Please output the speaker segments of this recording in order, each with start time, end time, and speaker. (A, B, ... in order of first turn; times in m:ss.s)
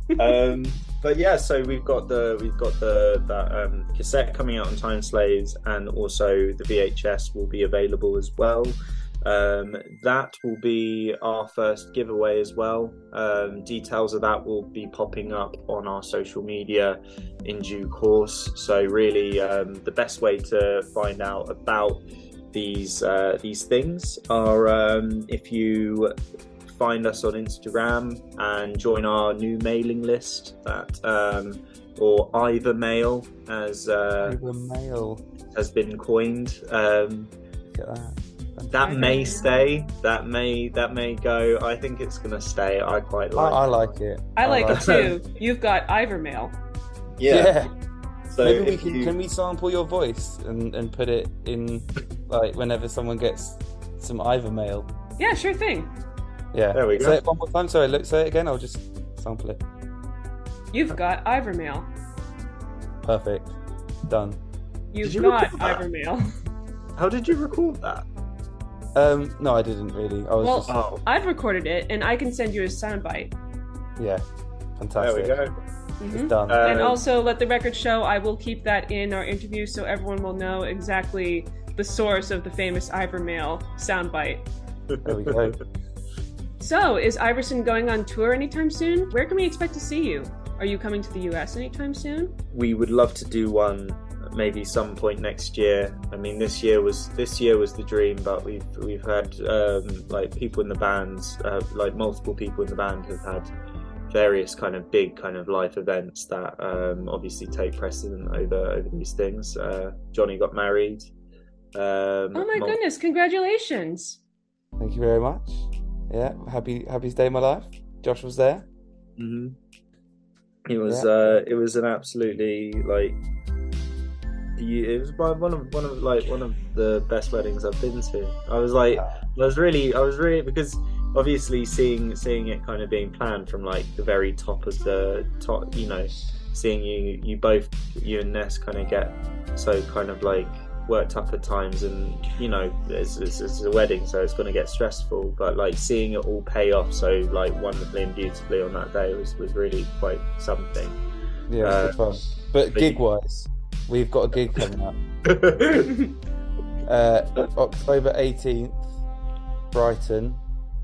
0:00.2-0:26.1 A
0:26.7-0:34.4 A
0:34.2-0:35.2 B
0:35.5-0:37.3 A
0:37.6-0:39.1 B
0:38.7-0:44.0 A
0:38.9-0:39.4 C
0:43.4-0:44.9 B
0:44.4-0:46.5 C
0:44.7-0:45.1 A
0:47.2-0:47.6 A
0:47.3-0:47.7 B
0:48.3-0:49.2 A
0:48.3-0:54.9 B
0:55.2-0:55.9 C
0:56.5-0:59.6 B
0:56.7-0:57.2 A
1:00.7-1:01.9 C
1:03.0-1:04.4 B
1:04.9-1:06.3 C
1:05.0-1:05.8 A
1:07.0-1:08.1 A
1:09.0-1:10.8 B
1:10.4-1:13.3 C
1:10.7-1:11.0 A
1:14.0-1:14.2 B
1:14.8-1:15.4 B
1:15.0-1:15.5 A
1:16.0-1:24.5 C
1:16.1-1:16.8 B
1:16.5-1:17.0 A
1:24.9-1:25.5 A
1:25.0-1:25.6 B
1:26.6-1:32.3 C
1:32.5-1:43.5 A
1:44.1-1:51.1 A
1:51.8-1:52.8 A
1:52.4-1:54.2 C
1:54.8-1:58.7 B
1:59.2-1:59.6 A
2:00.7-2:03.2 A
2:00.9-2:01.4 B
2:04.6-2:31.0 A
2:08.9-2:09.2 B
2:31.5-2:35.0 B
2:31.6-2:32.0 A
2:32.7-2:33.0 A
2:35.3-2:36.0 A
2:36.9-2:38.9 B
2:39.7-2:40.4 B